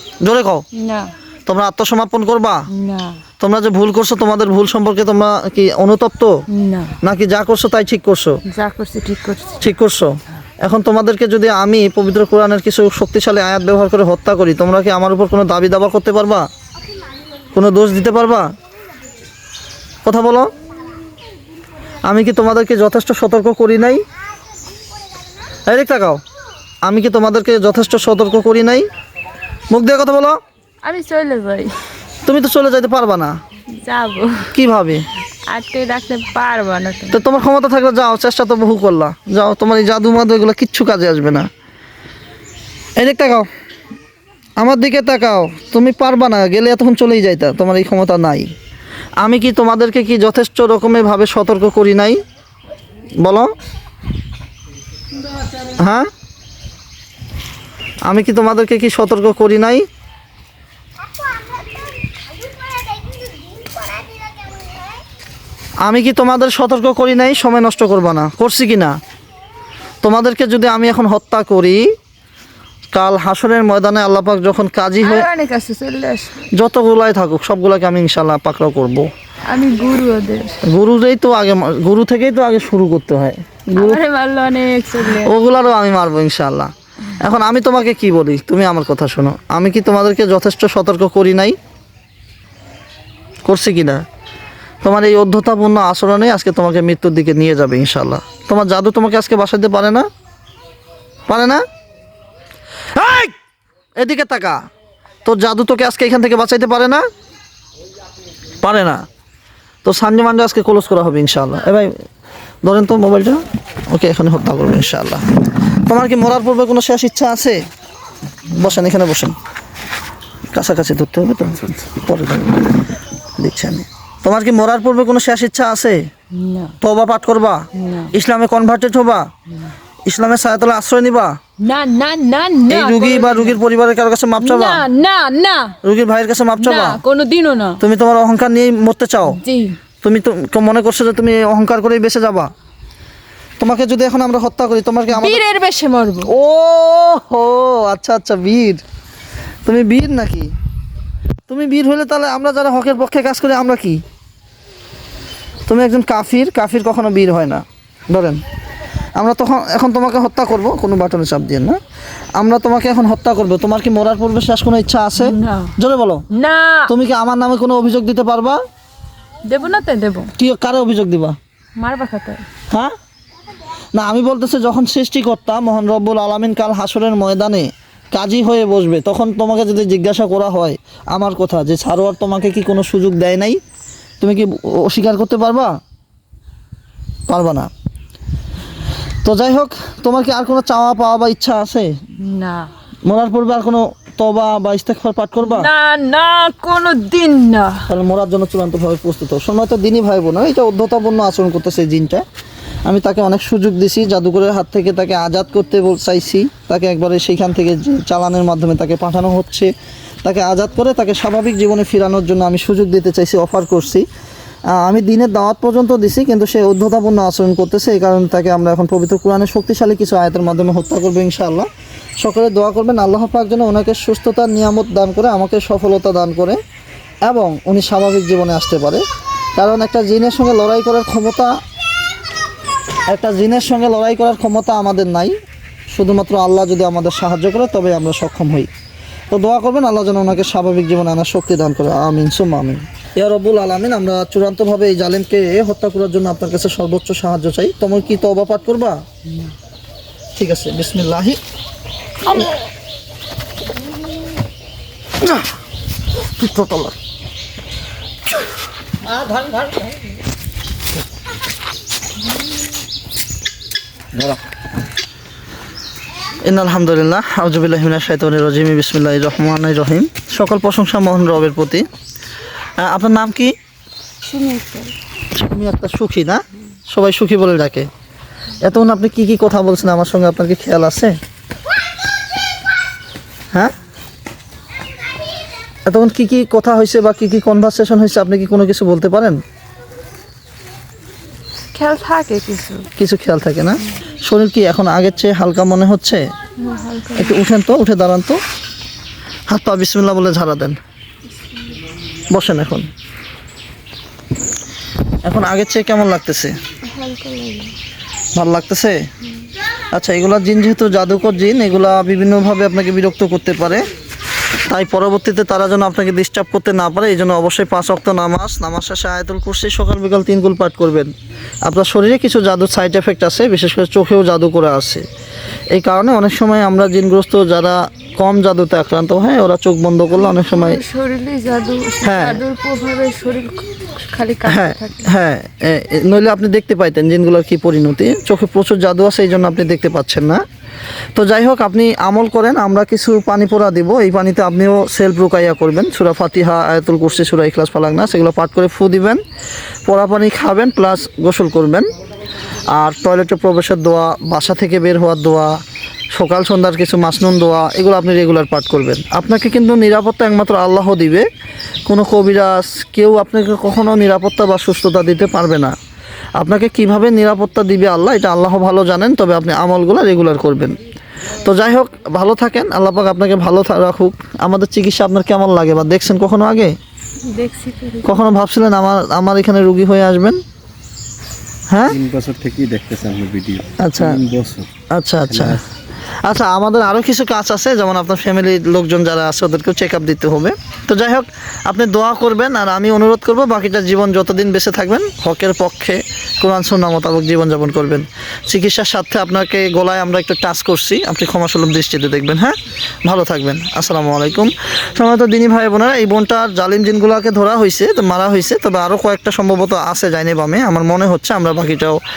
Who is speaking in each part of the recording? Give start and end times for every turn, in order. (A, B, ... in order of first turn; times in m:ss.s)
0:00.2-0:00.6 A
0:00.7-0:01.1 B
0:01.4-0:02.6 A
0:02.7-0:03.2 B
0:03.4-0:06.3 A
0:06.5-0:07.0 B
0:07.0-0:08.4 A
0:08.5-0:09.6 B
0:09.6-0:16.5 A
0:17.5-0:18.5 A
0:20.0-0:20.5 A
0:22.1-0:24.0 A
0:25.7-0:26.2 A
0:26.8-0:28.8 A
0:29.7-0:30.4 A
0:30.8-0:31.7 B
0:32.2-0:33.3 A
0:33.7-0:34.5 B
0:34.5-0:35.0 A
0:35.5-0:37.2 B
0:37.1-0:41.5 A
0:43.0-0:43.5 A
0:44.6-0:48.5 A
0:49.2-0:52.2 A
0:53.2-0:53.5 A
0:55.8-0:56.1 A
0:58.0-0:59.8 A
1:05.8-1:09.0 A
1:10.0-1:11.9 A
1:12.9-1:15.3 A
1:15.0-1:16.4 B
1:16.6-1:19.1 A
1:19.5-1:20.6 B
1:20.7-1:24.0 A
1:23.7-1:25.3 B
1:25.0-1:31.6 A
1:33.4-1:34.0 A
1:34.8-1:40.1 A
1:41.3-1:41.6 A
1:42.9-1:43.3 A
1:44.0-1:44.6 A
1:45.2-1:47.0 A
1:48.6-1:49.0 A
1:49.8-1:51.9 A
1:52.6-1:57.6 A
1:58.5-1:59.3 A
2:00.5-2:02.8 A
2:03.4-2:06.1 A
2:06.3-2:06.7 B
2:06.8-2:09.3 A
2:07.8-2:08.1 B
2:10.0-2:11.4 A
2:11.6-2:13.6 B
2:12.7-2:14.9 A
2:14.4-2:15.7 B
2:15.8-2:17.0 A
2:16.6-2:17.8 B
2:17.8-2:19.4 A
2:19.2-2:19.8 B
2:20.0-2:22.5 A
2:23.6-2:25.4 A
2:25.1-2:26.3 B
2:26.2-2:28.8 A
2:29.6-2:30.5 A
2:31.5-2:34.0 A
2:35.7-2:38.4 A
2:39.2-2:41.8 A
2:42.4-2:46.2 A
2:45.2-2:45.7 B
2:46.3-2:46.9 B
2:46.9-2:48.6 A
2:49.4-2:50.3 B
2:50.4-2:51.4 A
2:51.8-2:52.4 B
2:53.9-3:03.6 A
3:04.2-3:05.8 A
3:07.3-3:07.7 A
3:09.2-3:11.9 A
3:12.2-3:12.7 B
3:13.0-3:15.7 A
3:15.4-3:17.8 B
3:17.9-3:22.2 A
3:22.8-3:29.7 A
3:30.2-3:34.0 A
3:34.7-3:41.7 A
3:42.2-3:46.6 A
3:47.2-3:49.0 A
3:49.6-3:51.5 A
3:53.1-3:55.3 A
3:55.9-3:58.7 A
3:59.3-4:09.0 A
4:10.4-4:11.4 A
4:15.2-4:15.5 A
4:16.2-4:16.9 A
4:19.1-4:19.9 A
4:26.4-4:31.9 A
4:32.8-4:33.5 A
4:34.2-4:34.9 B
4:35.3-4:37.9 A
4:38.6-4:41.1 A
4:45.8-4:49.4 A
4:51.7-4:52.9 B
4:53.0-4:56.2 A
4:56.6-4:57.4 B
4:57.2-4:58.4 A
4:59.5-5:00.8 A
5:02.3-5:02.9 A
5:05.2-5:06.5 A
5:06.9-5:07.7 B
5:08.3-5:09.0 A
5:09.9-5:13.8 A
5:14.7-5:21.1 A
5:21.6-5:25.0 A
5:25.7-5:30.8 A
5:30.2-5:35.1 B
5:32.0-5:32.4 A
5:34.4-5:40.4 A
5:41.2-5:49.2 A
5:49.8-5:51.9 A
5:52.7-5:55.6 A
5:56.1-6:01.2 A
6:01.8-6:05.7 A
6:06.4-6:10.8 A
6:11.4-6:16.7 A
6:17.2-6:18.2 B
6:18.0-6:20.4 A
6:21.7-6:22.0 A
6:21.8-6:24.7 C
6:23.8-6:24.2 A
6:24.9-6:25.6 A
6:25.2-6:25.7 C
6:26.2-6:52.0 A